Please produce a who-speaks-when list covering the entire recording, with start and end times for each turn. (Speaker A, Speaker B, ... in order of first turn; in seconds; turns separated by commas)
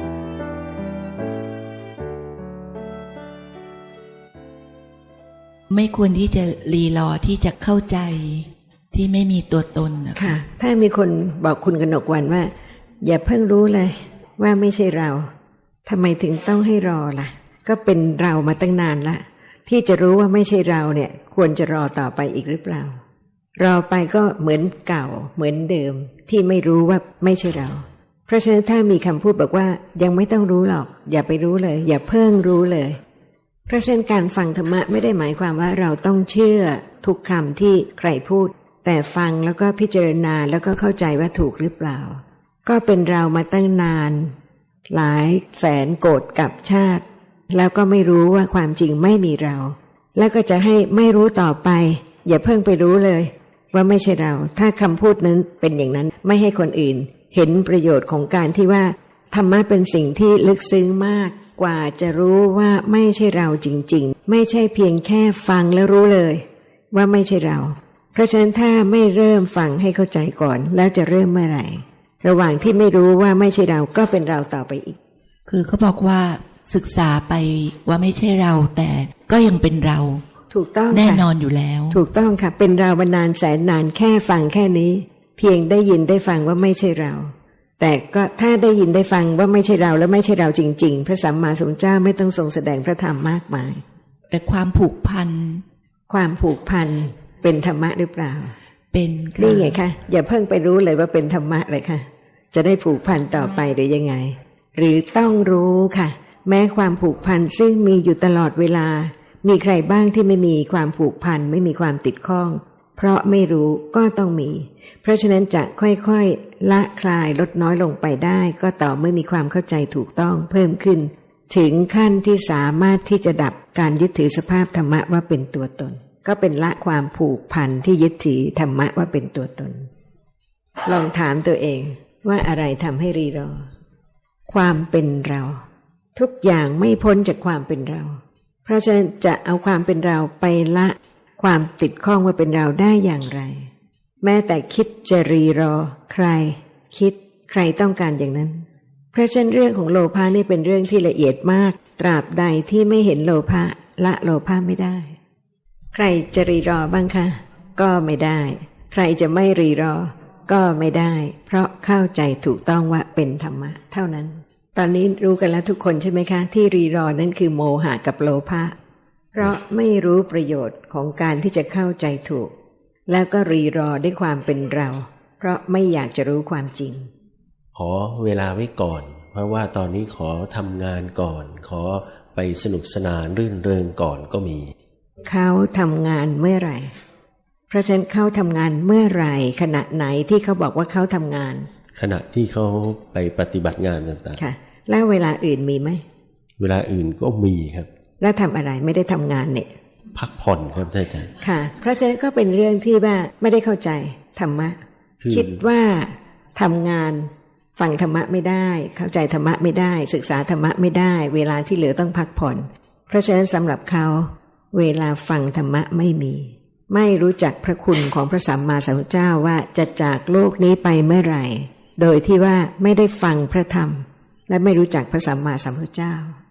Speaker A: 5.7-10.3, Speaker B: 10.2-15.3, Speaker B: 15.8-23.0, Speaker B: 23.6-33.0, Speaker B: 33.7-44.3, Speaker B: 44.9-75.0, Speaker A: 75.5-80.2, Speaker B: 80.5-81.3, Speaker A: 80.9-82.0, Speaker B: 81.9-93.8, Speaker A: 94.3-95.6, Speaker B: 96.1-98.5, Speaker A: 98.9-99.8, Speaker B: 99.4-129.9, Speaker B: 130.8-133.7, Speaker B: 134.5-135.6, Speaker B: 136.2-143.7, Speaker B: 144.2-155.2, Speaker B: 155.9-168.8, Speaker B: 169.3-172.5, Speaker B: 173.1-177.1, Speaker C: 177.8-184.7, Speaker B: 185.2-186.9, Speaker B: 187.7-191.7, Speaker C: 191.9-194.4, Speaker B: 194.3-196.0, Speaker C: 196.6-197.9, Speaker B: 198.2-199.7, Speaker C: 200.2-201.3, Speaker B: 201.4-204.8, Speaker C: 205.2-205.6, Speaker B: 205.3-226.4